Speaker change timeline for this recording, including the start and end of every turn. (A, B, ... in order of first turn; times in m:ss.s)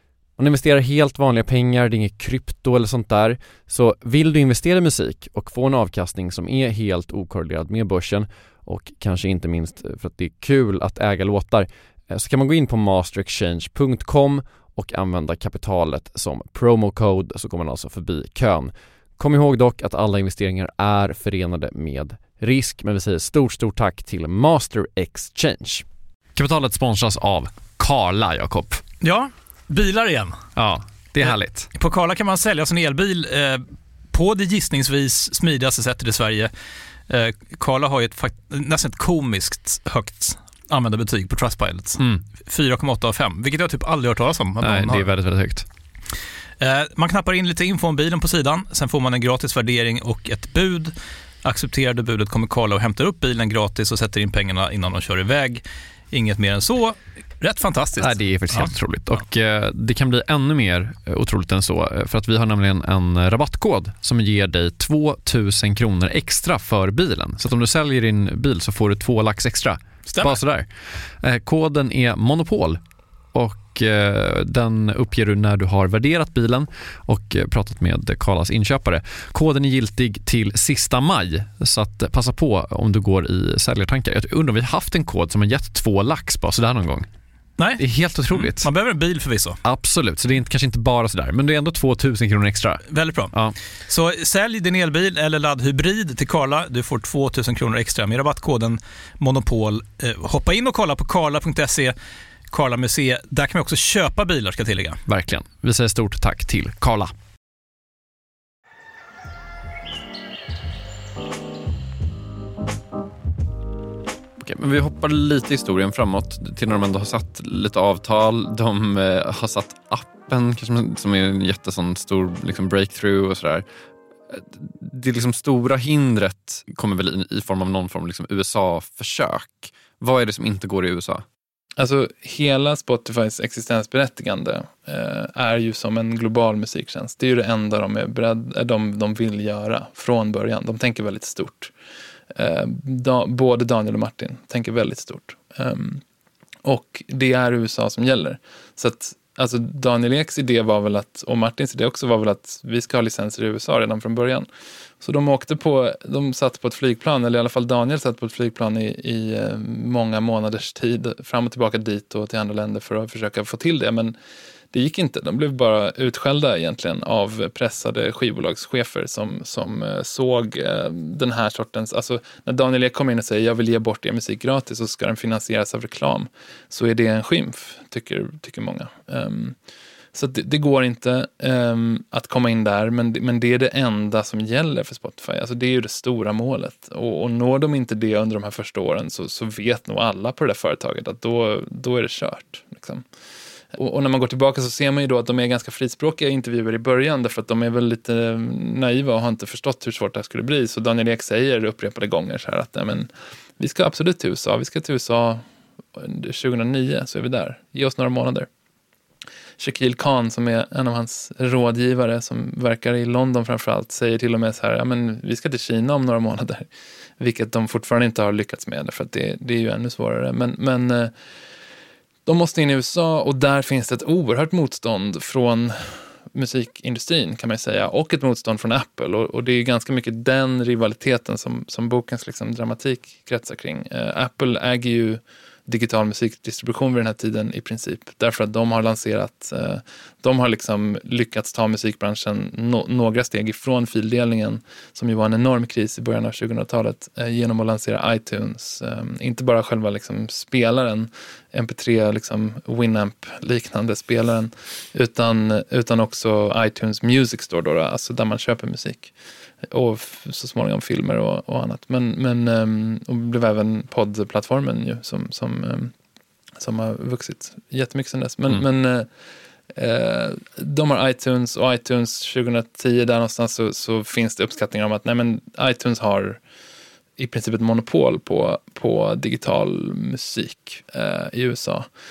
0:00.4-0:25.8 A
0:26.4-0:28.8 A
0:29.0-0:30.4 B
0:30.6-0:31.7 A
0:31.2-0:36.5 B
0:37.1-0:45.1 B
0:42.0-0:42.2 A
0:44.6-0:45.6 A
0:46.6-0:50.9 B
0:51.4-0:58.7 B
0:58.0-1:10.7 A
1:11.2-1:12.8 A
1:13.3-1:27.1 A
1:27.6-1:29.6 B
1:27.8-1:28.7 A
1:29.6-1:33.6 A
1:32.9-1:33.3 B
1:33.9-1:41.9 B
1:42.5-1:45.0 B
1:45.1-1:47.1 A
1:54.4-2:03.6 A
2:04.3-2:11.2 A
2:11.8-2:21.7 C
2:22.3-2:26.0 C
2:26.6-2:34.5 C
2:35.0-2:44.1 C
2:44.7-2:59.6 C
3:00.1-3:13.0 C
3:13.7-3:25.4 C
3:26.0-3:28.5 C
3:29.6-3:36.6 C
3:37.2-3:41.1 C
3:42.2-4:19.1 C
4:19.7-4:25.9 C
4:26.6-4:29.1 C
4:29.7-4:36.4 C
4:37.2-4:41.9 C